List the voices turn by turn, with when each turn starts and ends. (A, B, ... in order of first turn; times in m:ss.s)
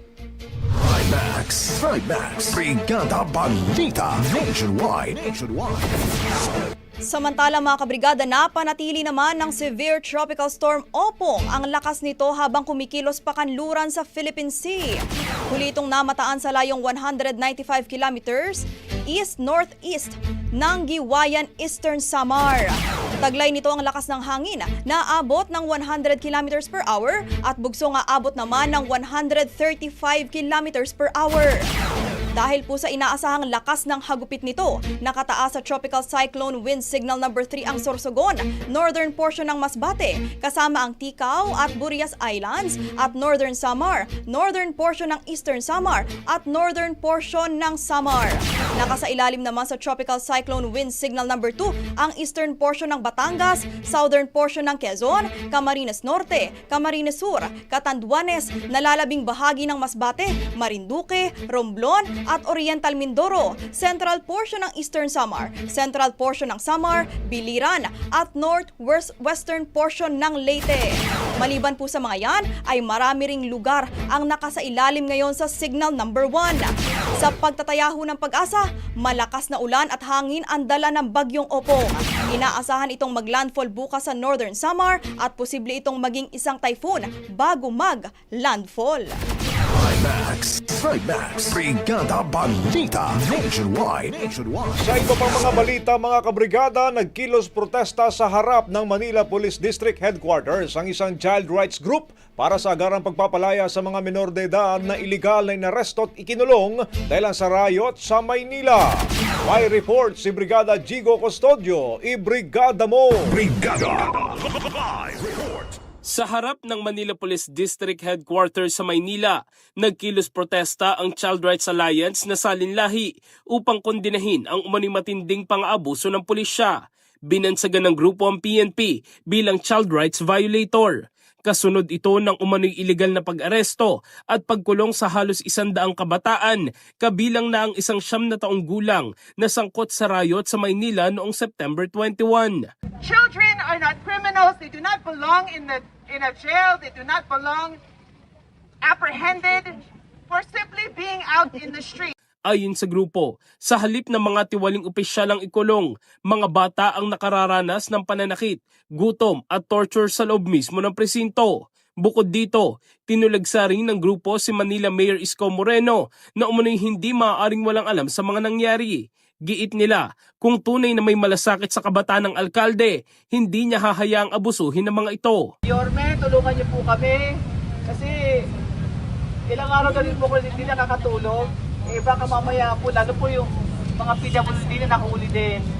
0:00.8-0:06.0 A
0:07.0-0:31.6 B
0:32.4-1:29.2 B
1:29.6-1:34.9 A
1:34.8-1:53.4 C
1:53.3-1:54.3 A
1:54.9-1:55.7 A
1:56.1-2:06.8 D
2:07.3-2:22.7 D
2:23.0-2:27.8 E
2:28.8-2:32.1 E
2:32.5-2:55.5 D
2:55.6-2:57.3 E
2:57.9-2:58.1 E
2:59.5-3:05.6 E